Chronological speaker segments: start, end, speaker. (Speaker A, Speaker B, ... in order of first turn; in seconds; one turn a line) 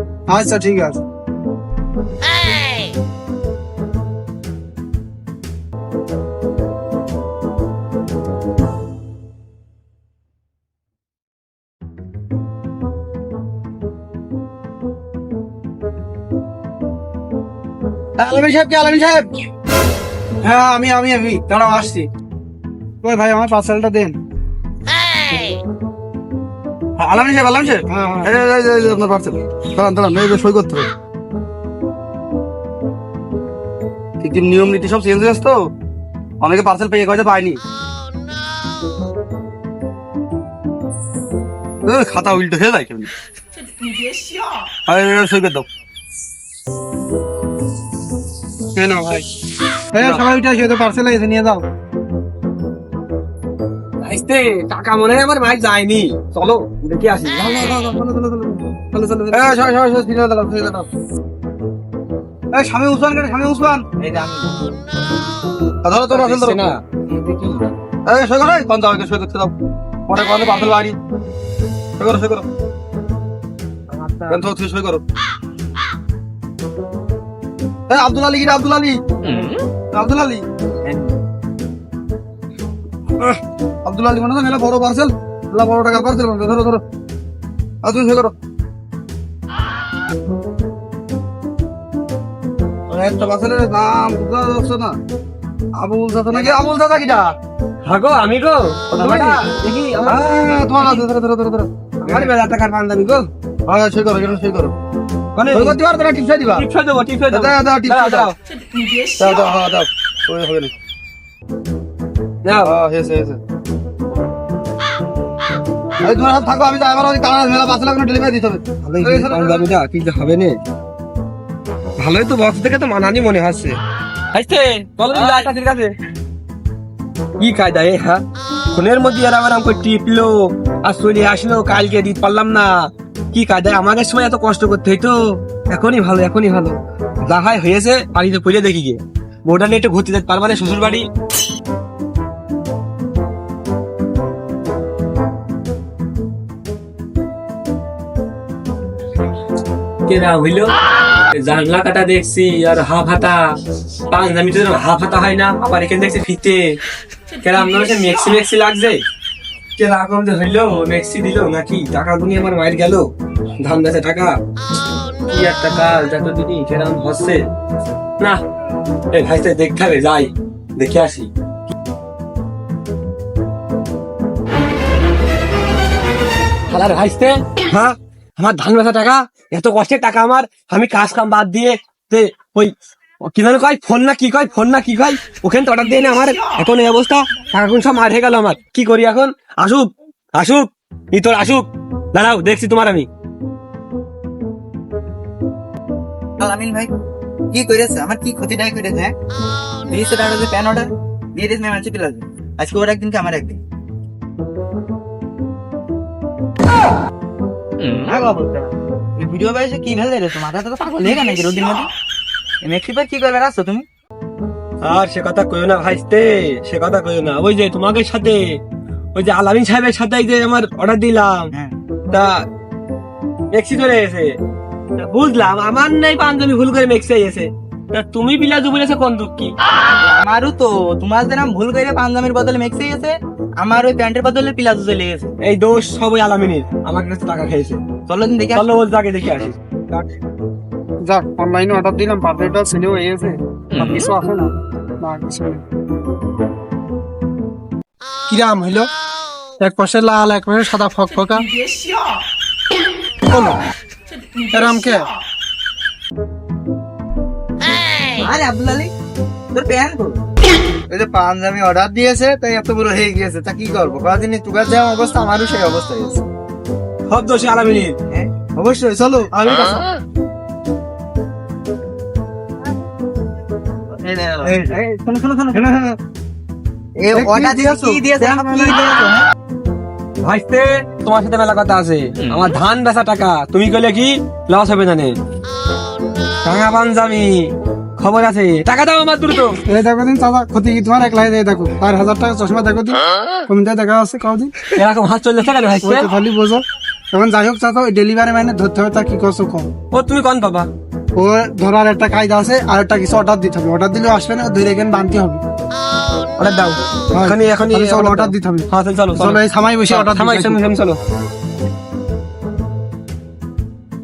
Speaker A: 0.3-1.0
Speaker B: 18.2-19.3
Speaker A: 20.4-22.1
Speaker A: 23.0-24.1
Speaker B: 27.0-30.9
Speaker A: 27.9-28.3
Speaker B: 34.2-35.6
Speaker B: 36.4-37.6
Speaker B: 41.9-43.1
Speaker B: 44.9-45.7
Speaker A: 48.8-49.3
Speaker A: 49.9-51.6
Speaker C: 54.0-58.0
Speaker B: 57.5-58.6
Speaker C: 58.9-59.6
Speaker B: 59.3-60.9
Speaker B: 62.5-63.9
Speaker D: 64.0-64.5
Speaker B: 65.8-66.7
Speaker C: 66.1-67.7
Speaker B: 68.0-69.5
Speaker B: 70.1-71.0
Speaker B: 72.0-72.5
Speaker C: 73.9-74.4
Speaker B: 74.3-75.0
Speaker B: 77.9-79.0
Speaker B: 79.9-80.4
Speaker D: 80.8-81.2
Speaker B: 83.8-86.8
Speaker B: 87.8-88.3
Speaker B: 92.9-95.0
Speaker B: 95.8-97.4
Speaker C: 97.8-100.2
Speaker B: 98.9-102.3
Speaker C: 102.0-103.3
Speaker B: 103.7-104.7
Speaker C: 105.4-105.8
Speaker B: 105.5-106.7
Speaker C: 106.5-108.3
Speaker B: 107.3-108.3
Speaker B: 109.2-110.7
Speaker C: 112.4-112.7
Speaker B: 112.6-113.4
Speaker B: 116.0-119.7
Speaker C: 118.8-120.6
Speaker C: 122.0-123.8
Speaker C: 124.3-125.9
Speaker C: 127.4-132.7
Speaker C: 133.3-141.1
Speaker C: 150.1-150.8
Speaker C: 151.4-153.4
Speaker C: 154.1-156.8
Speaker C: 157.4-159.0
Speaker C: 159.8-163.1
Speaker C: 163.6-164.4
Speaker C: 165.3-167.5
Speaker C: 169.1-171.3
Speaker C: 176.7-182.7
Speaker C: 183.3-193.1
Speaker D: 196.4-196.9
Speaker D: 197.5-199.2
Speaker D: 199.9-203.6
Speaker D: 207.9-211.9
Speaker D: 212.6-213.9
Speaker C: 214.8-218.6
Speaker C: 219.2-221.5
Speaker C: 222.1-222.4
Speaker C: 223.5-224.3
Speaker C: 225.0-229.6
Speaker D: 230.0-235.3
Speaker C: 235.4-237.8
Speaker D: 238.1-238.7
Speaker C: 238.5-240.0
Speaker A: 241.1-245.6
Speaker D: 243.8-244.1
Speaker A: 248.3-248.9
Speaker A: 249.6-251.5
Speaker A: 253.3-253.6
Speaker A: 254.5-255.1
Speaker D: 258.1-258.9
Speaker D: 259.5-260.2
Speaker E: 260.9-266.2
Speaker C: 267.1-268.0
Speaker D: 268.1-268.6
Speaker B: 268.7-269.8
Speaker D: 274.1-275.7
Speaker B: 275.6-276.0
Speaker D: 277.0-279.3
Speaker B: 277.1-278.8
Speaker C: 280.2-285.2
Speaker C: 286.4-289.6
Speaker A: 289.7-294.6
Speaker C: 294.8-296.1
Speaker A: 295.8-299.7
Speaker C: 299.9-300.7
Speaker A: 301.2-305.4
Speaker C: 306.4-311.0
Speaker A: 307.1-310.6